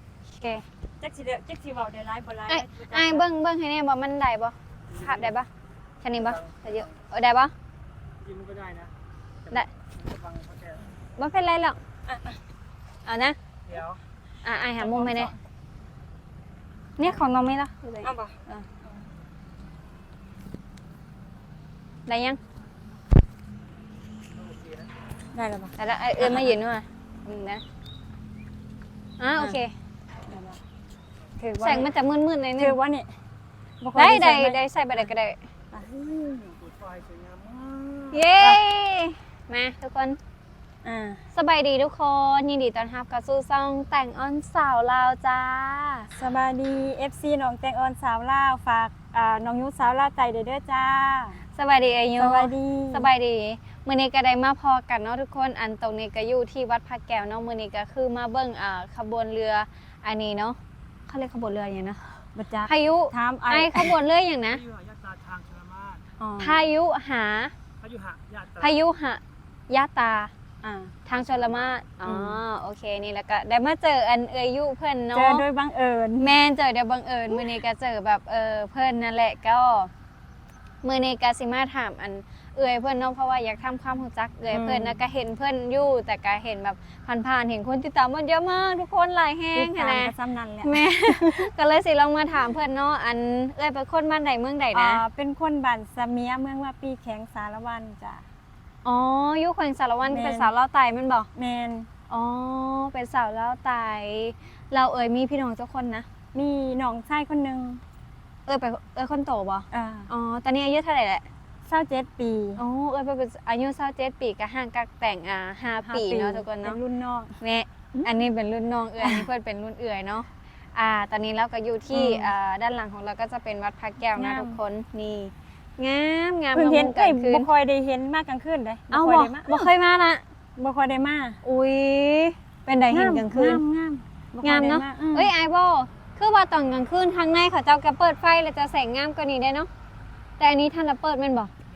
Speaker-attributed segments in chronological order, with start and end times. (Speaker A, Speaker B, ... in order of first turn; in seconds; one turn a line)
Speaker A: 0.3-0.7
Speaker B: 1.0-3.3
Speaker A: 2.5-5.5
Speaker A: 6.0-7.5
Speaker C: 8.2-8.9
Speaker C: 9.5-10.8
Speaker A: 11.2-11.8
Speaker B: 12.1-12.4
Speaker A: 13.1-13.4
Speaker C: 13.7-14.0
Speaker A: 14.4-15.3
Speaker B: 14.9-15.3
Speaker A: 17.0-18.6
Speaker B: 18.0-18.9
Speaker A: 22.1-22.4
Speaker B: 25.3-26.5
Speaker A: 25.8-27.6
Speaker A: 29.2-29.7
Speaker B: 30.3-30.6
Speaker B: 31.4-31.9
Speaker A: 31.6-32.8
Speaker B: 32.6-33.1
Speaker B: 33.8-35.1
Speaker A: 34.0-35.4
Speaker B: 35.7-36.5
Speaker C: 36.5-38.0
Speaker A: 38.1-40.2
Speaker B: 40.8-41.2
Speaker A: 41.3-46.1
Speaker B: 46.1-51.4
Speaker A: 51.5-64.6
Speaker B: 52.2-53.1
Speaker B: 62.4-64.0
Speaker C: 64.7-66.0
Speaker B: 66.2-66.6
Speaker A: 66.4-67.5
Speaker C: 67.8-68.7
Speaker A: 68.6-70.3
Speaker B: 70.6-70.9
Speaker A: 71.1-75.5
Speaker B: 72.0-72.4
Speaker B: 75.1-76.3
Speaker A: 76.2-79.9
Speaker B: 77.3-77.6
Speaker A: 80.8-95.0
Speaker B: 84.5-85.0
Speaker B: 89.5-91.5
Speaker B: 94.7-98.2
Speaker A: 98.8-101.3
Speaker B: 100.1-100.5
Speaker B: 101.3-101.9
Speaker A: 102.1-106.1
Speaker B: 106.3-107.8
Speaker A: 108.5-111.3
Speaker B: 109.7-110.1
Speaker B: 111.7-112.6
Speaker A: 112.6-116.8
Speaker B: 115.8-117.4
Speaker A: 117.4-127.5
Speaker B: 119.0-119.3
Speaker B: 121.9-122.3
Speaker B: 124.2-124.6
Speaker B: 126.5-129.7
Speaker A: 128.9-130.2
Speaker B: 130.6-131.4
Speaker A: 131.4-133.6
Speaker B: 132.9-135.3
Speaker A: 134.4-139.7
Speaker A: 140.4-141.5